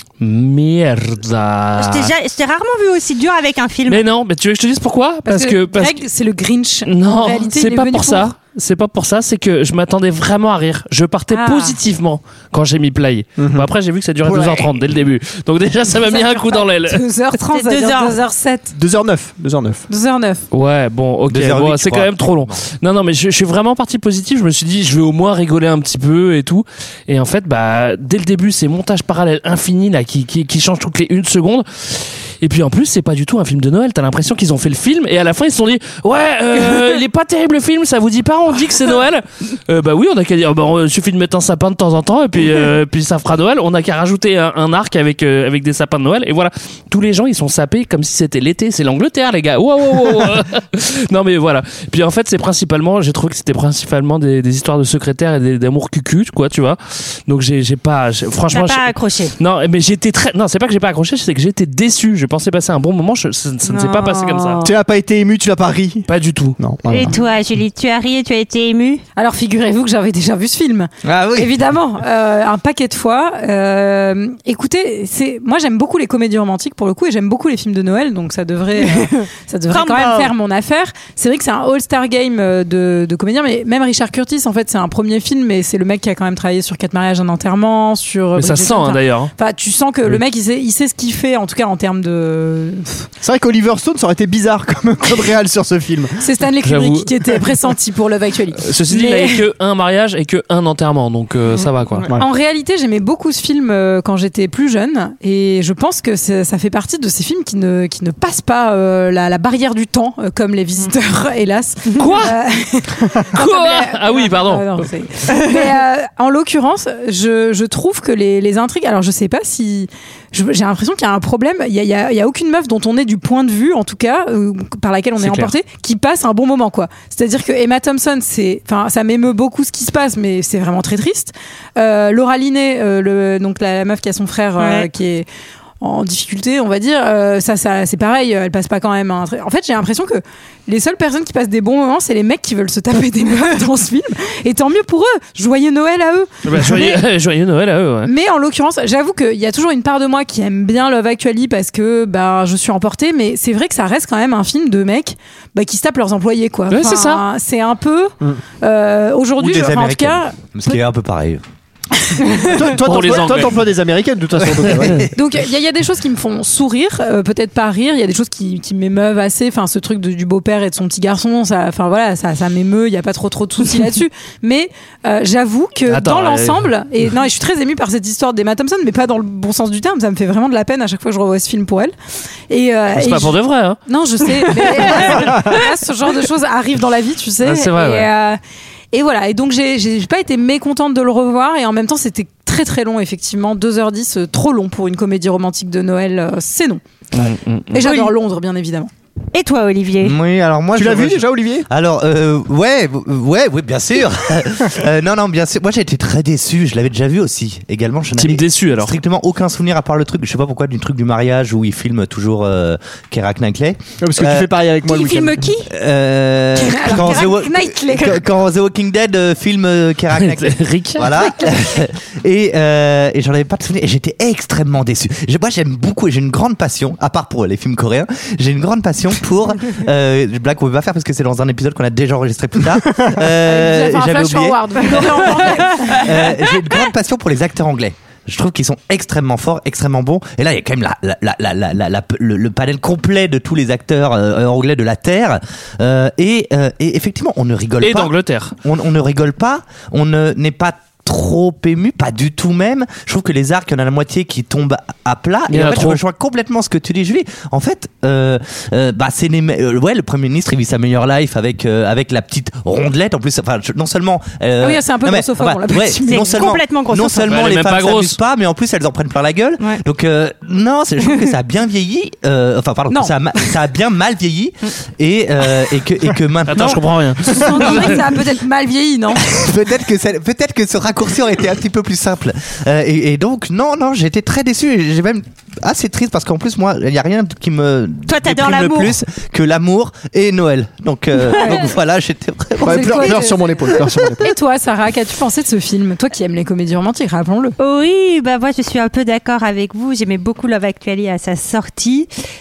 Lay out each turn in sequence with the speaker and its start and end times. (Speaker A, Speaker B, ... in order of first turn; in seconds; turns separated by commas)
Speaker A: 0.2-2.1, Speaker B: 1.8-4.0, Speaker A: 3.9-6.0, Speaker C: 5.3-8.3, Speaker A: 6.8-17.0, Speaker C: 11.3-11.8, Speaker D: 13.4-13.7, Speaker C: 15.9-18.7, Speaker B: 17.4-18.2, Speaker D: 18.7-19.8, Speaker C: 19.9-20.4, Speaker A: 20.5-64.6, Speaker E: 21.3-22.6, Speaker B: 58.5-59.3, Speaker B: 63.7-64.7, Speaker D: 64.6-66.0, Speaker A: 66.1-66.6, Speaker D: 66.6-67.2, Speaker B: 66.9-69.0, Speaker C: 69.2-93.1, Speaker E: 71.0-71.5, Speaker B: 79.7-80.3, Speaker A: 88.3-89.3, Speaker D: 93.2-96.2, Speaker C: 96.2-99.4, Speaker A: 96.6-97.1, Speaker A: 98.6-102.1, Speaker C: 102.1-135.2, Speaker A: 112.0-112.3, Speaker A: 113.3-114.8, Speaker A: 125.2-125.5, Speaker B: 134.6-134.9, Speaker C: 135.8-147.1, Speaker A: 146.4-148.1, Speaker C: 148.1-160.8, Speaker A: 156.7-157.2, Speaker E: 159.4-161.4, Speaker C: 162.1-162.6, Speaker D: 162.5-165.1, Speaker A: 162.8-163.6, Speaker E: 164.4-165.1, Speaker C: 165.1-181.9, Speaker A: 175.9-176.7, Speaker C: 182.5-183.3, Speaker A: 182.9-183.8, Speaker C: 183.9-188.4, Speaker A: 184.8-185.1, Speaker A: 187.4-188.1, Speaker C: 188.9-196.8, Speaker A: 197.2-197.7, Speaker C: 197.7-198.9, Speaker B: 197.8-198.1, Speaker B: 199.3-200.2, Speaker E: 200.0-214.5, Speaker D: 200.7-201.7, Speaker A: 208.2-208.9, Speaker D: 214.0-215.5, Speaker B: 214.8-215.7, Speaker E: 215.7-235.3, Speaker C: 216.5-218.3, Speaker A: 220.1-221.2, Speaker C: 233.3-236.3, Speaker B: 234.8-236.2, Speaker E: 235.9-277.9, Speaker A: 247.8-248.5, Speaker A: 255.5-256.0, Speaker C: 264.6-266.5, Speaker B: 266.0-267.4, Speaker A: 267.3-268.2, Speaker C: 272.9-273.1, Speaker A: 276.5-276.8, Speaker D: 276.5-277.7, Speaker C: 277.3-279.3, Speaker A: 277.6-278.0, Speaker E: 279.3-293.8, Speaker B: 288.1-288.9, Speaker B: 291.3-291.6, Speaker C: 291.3-291.7, Speaker C: 292.6-293.4, Speaker D: 292.6-294.3, Speaker C: 294.2-297.6, Speaker B: 297.6-302.1